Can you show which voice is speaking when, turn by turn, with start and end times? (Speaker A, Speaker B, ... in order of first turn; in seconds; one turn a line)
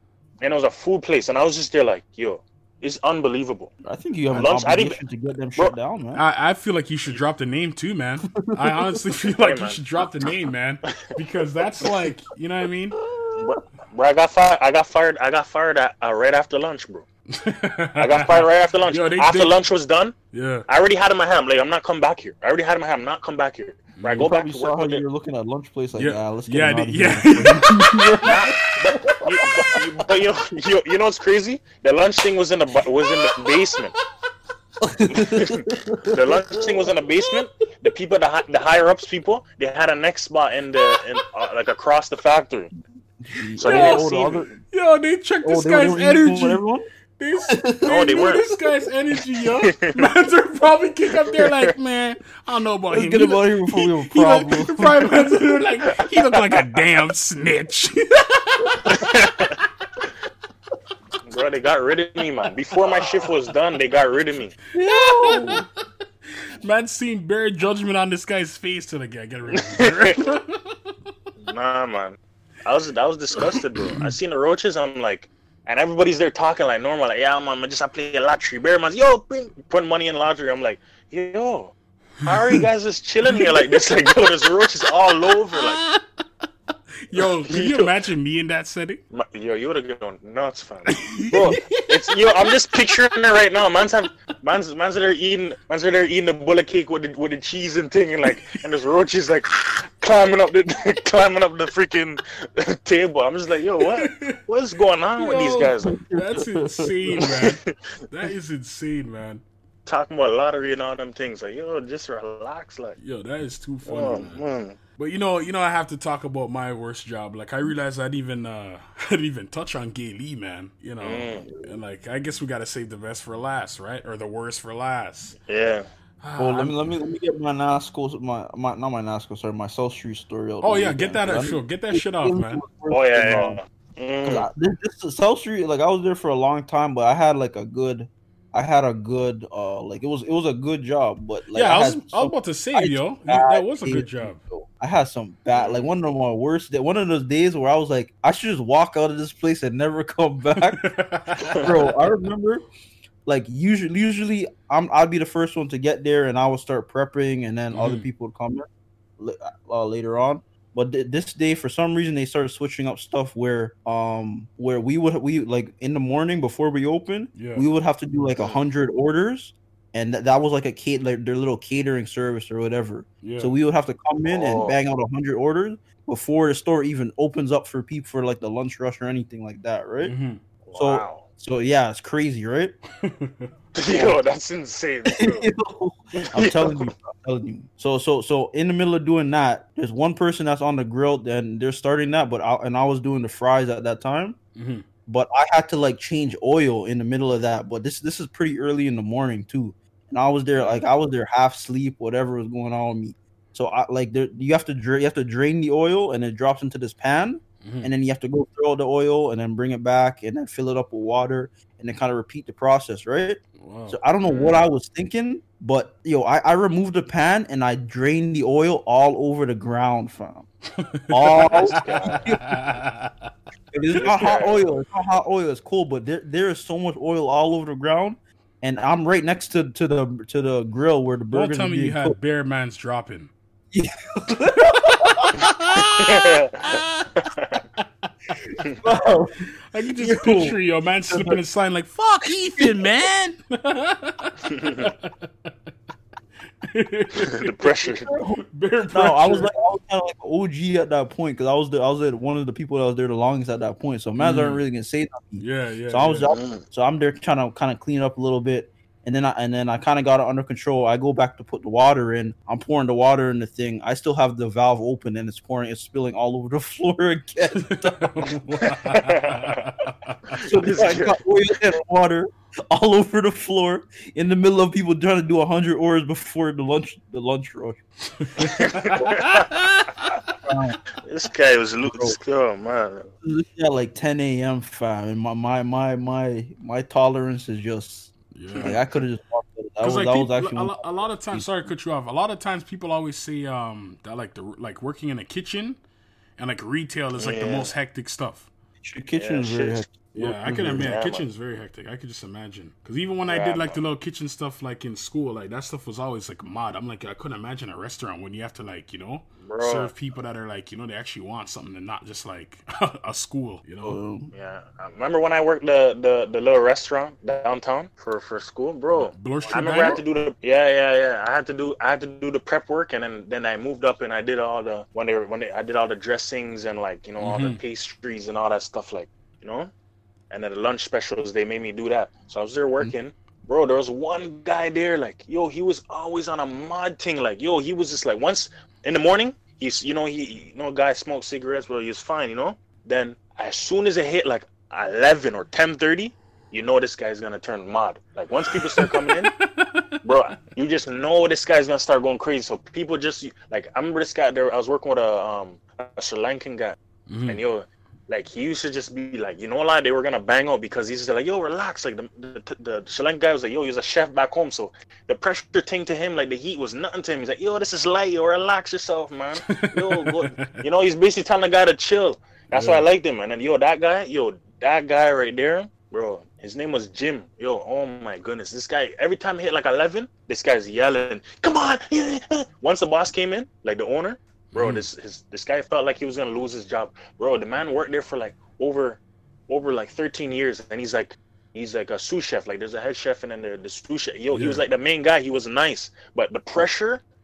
Speaker A: 0.4-3.7
Speaker B: 3.8-6.2
Speaker A: 4.3-5.0
Speaker C: 6.1-13.0
Speaker B: 8.4-9.0
Speaker A: 9.3-10.3
Speaker B: 13.0-13.5
Speaker A: 13.4-17.0
Speaker C: 17.3-19.6
Speaker A: 18.0-20.1
Speaker C: 20.3-20.6
Speaker A: 20.7-25.0
Speaker C: 24.0-24.3
Speaker B: 24.2-29.8
Speaker C: 25.9-28.2
Speaker A: 28.2-33.9
Speaker C: 33.3-33.6
Speaker B: 34.8-36.9
Speaker A: 35.1-42.7
Speaker B: 43.2-44.6
Speaker A: 43.6-44.4
Speaker C: 43.6-46.6
Speaker B: 45.4-46.8
Speaker C: 47.2-59.5
Speaker B: 47.5-48.6
Speaker A: 47.9-48.5
Speaker A: 49.6-50.1
Speaker A: 51.1-51.7
Speaker B: 52.9-55.2
Speaker A: 55.9-56.9
Speaker A: 58.9-59.5
Speaker A: 61.2-64.6
Speaker B: 64.7-65.7
Speaker C: 64.8-65.6
Speaker C: 66.3-70.8
Speaker A: 69.6-70.2
Speaker A: 71.4-85.8
Speaker C: 73.4-74.1
Speaker C: 83.3-83.7
Speaker C: 85.5-86.0
Speaker C: 87.1-89.0
Speaker A: 87.2-87.9
Speaker A: 89.1-106.0
Speaker C: 90.9-92.6
Speaker C: 103.8-104.4
Speaker C: 105.2-109.4
Speaker B: 105.8-107.2
Speaker A: 107.2-107.6
Speaker A: 109.8-113.0
Speaker C: 113.0-114.4
Speaker A: 113.8-114.8
Speaker C: 115.0-125.4
Speaker A: 121.0-121.5
Speaker A: 125.5-125.9
Speaker C: 126.2-126.9
Speaker B: 126.4-133.6
Speaker C: 130.6-132.6
Speaker A: 132.9-134.5
Speaker B: 134.2-150.9
Speaker C: 141.5-144.4
Speaker A: 145.5-145.9
Speaker C: 150.6-151.7
Speaker B: 151.5-152.6
Speaker B: 153.2-158.7
Speaker C: 157.7-158.0
Speaker B: 159.2-180.1
Speaker C: 167.3-167.7
Speaker C: 173.2-173.5
Speaker A: 174.3-174.8
Speaker C: 180.0-180.4
Speaker A: 180.7-181.2
Speaker B: 180.8-182.8
Speaker C: 183.0-183.5
Speaker A: 183.7-185.5
Speaker B: 183.9-184.2
Speaker B: 185.1-194.4
Speaker A: 186.1-186.9
Speaker C: 194.6-194.8
Speaker B: 195.1-220.5
Speaker C: 200.6-200.8
Speaker C: 207.6-207.9
Speaker C: 213.6-214.0
Speaker A: 214.2-214.6
Speaker C: 220.8-223.3
Speaker B: 221.1-222.5
Speaker A: 221.3-222.3
Speaker B: 223.7-232.2
Speaker A: 223.9-224.7
Speaker C: 231.3-233.3
Speaker B: 233.7-235.4
Speaker C: 235.2-237.1
Speaker A: 235.7-237.6
Speaker B: 238.8-240.6
Speaker C: 239.7-245.5
Speaker B: 241.1-241.4
Speaker B: 242.6-242.8
Speaker A: 244.5-244.9
Speaker C: 246.6-249.5
Speaker A: 247.2-248.1
Speaker B: 248.0-268.3
Speaker C: 254.2-254.6
Speaker C: 255.4-256.3
Speaker A: 256.3-256.6
Speaker C: 267.6-270.4
Speaker A: 268.6-269.6
Speaker A: 270.3-271.2
Speaker B: 270.4-277.8
Speaker C: 278.2-280.2
Speaker B: 278.4-279.1
Speaker A: 278.4-279.5
Speaker B: 280.4-280.8
Speaker A: 281.0-283.1
Speaker B: 281.8-282.2
Speaker B: 283.2-291.5
Speaker C: 288.3-288.8
Speaker C: 289.8-295.8
Speaker C: 296.4-298.5
Speaker A: 297.2-297.7
Speaker B: 298.8-300.9
Speaker A: 299.2-299.8
Speaker C: 300.1-314.0
Speaker A: 300.8-301.2
Speaker A: 303.2-303.8
Speaker A: 309.4-309.9
Speaker B: 313.8-314.3
Speaker A: 314.3-329.7
Speaker C: 318.9-320.0
Speaker C: 327.2-327.6
Speaker A: 330.3-349.3
Speaker C: 348.4-349.9
Speaker A: 350.0-397.0
Speaker C: 357.1-357.4
Speaker C: 369.4-370.5
Speaker C: 372.5-372.8
Speaker C: 384.5-384.8
Speaker C: 394.3-394.6